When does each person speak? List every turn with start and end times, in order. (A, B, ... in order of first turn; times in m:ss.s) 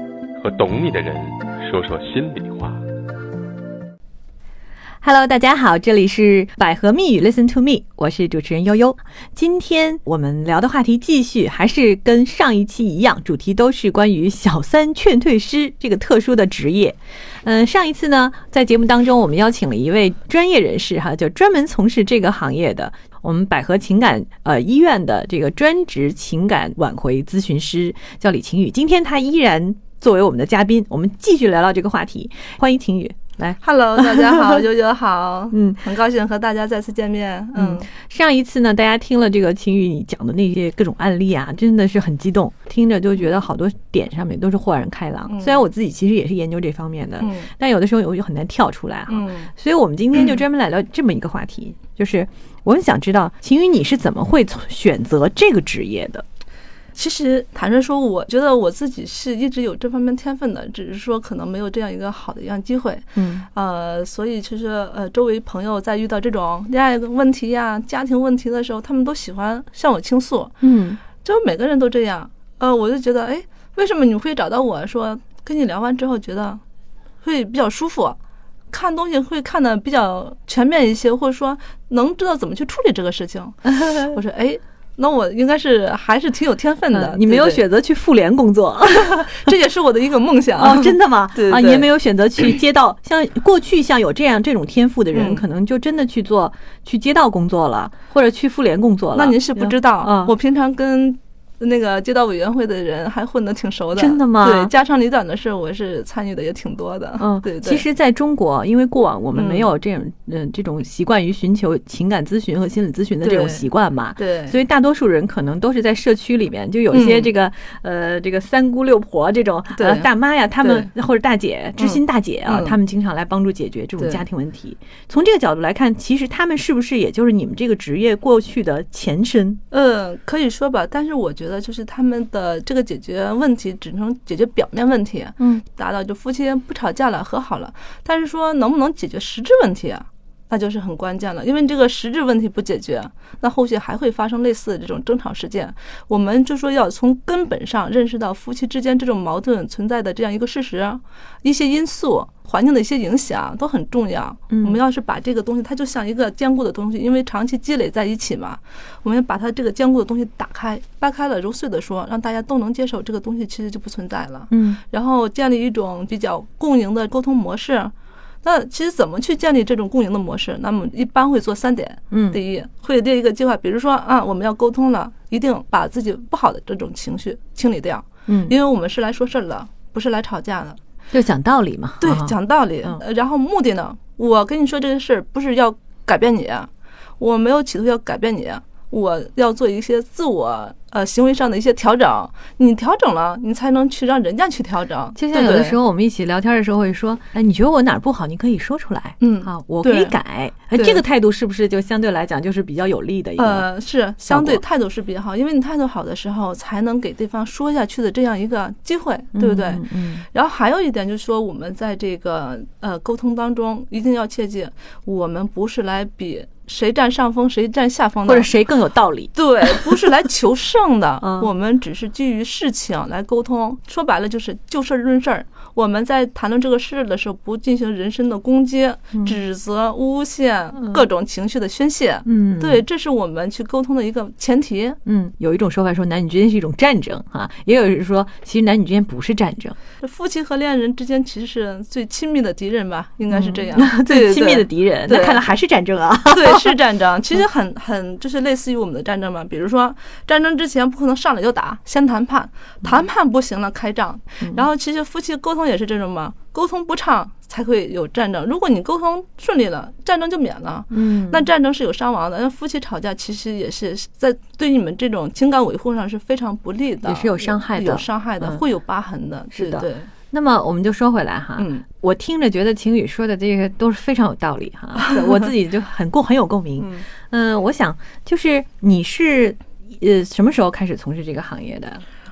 0:00.4-0:02.8 A
0:05.0-0:34.6 B
0:33.6-0:37.9 C
0:35.5-0:35.8 B
0:37.6-0:56.2 B
0:45.3-0:45.6 C
0:47.2-0:47.5 C
0:49.1-0:49.5 C
0:56.9-1:16.6 C
1:03.2-1:03.4 B
1:10.6-1:11.0 B
1:17.2-1:18.2 C
1:18.7-1:27.6 C
1:23.7-1:24.1 B
1:26.9-1:29.5 B
1:28.9-1:31.9 C
1:30.6-1:40.3 B
1:35.1-1:35.4 C
1:39.1-1:47.8 C
1:44.0-1:44.7 B
1:47.2-2:09.6 B
1:49.3-1:49.7 C
1:53.2-1:53.7 C
1:54.2-1:54.6 C
1:56.9-1:57.3 C
1:59.8-2:00.1 C
2:00.6-2:00.9 C
2:01.8-2:02.8 C
2:04.0-2:04.2 C
2:09.7-3:00.8 C
2:34.5-2:34.8 B
2:44.5-2:44.8 B
2:52.1-2:52.4 B
2:58.3-2:58.5 B
3:01.1-3:03.0 B
3:02.0-3:15.8 C
3:15.2-3:23.7 B
3:19.2-3:20.1 C
3:20.7-3:21.0 C
3:23.4-3:38.5 C
3:24.3-3:24.6 B
3:29.3-3:30.2 B
3:38.3-3:40.0 B
3:39.3-3:55.0 C
3:41.2-3:41.5 B
3:52.2-3:52.8 B
3:55.0-3:59.8 B
4:00.0-4:05.4 C
4:03.3-4:06.7 B
4:06.3-4:30.1 C
4:20.9-4:21.5 B
4:27.0-4:28.6 B
4:29.5-4:42.0 B
4:31.6-4:31.8 C
4:35.0-4:35.5 C
4:36.8-4:37.0 C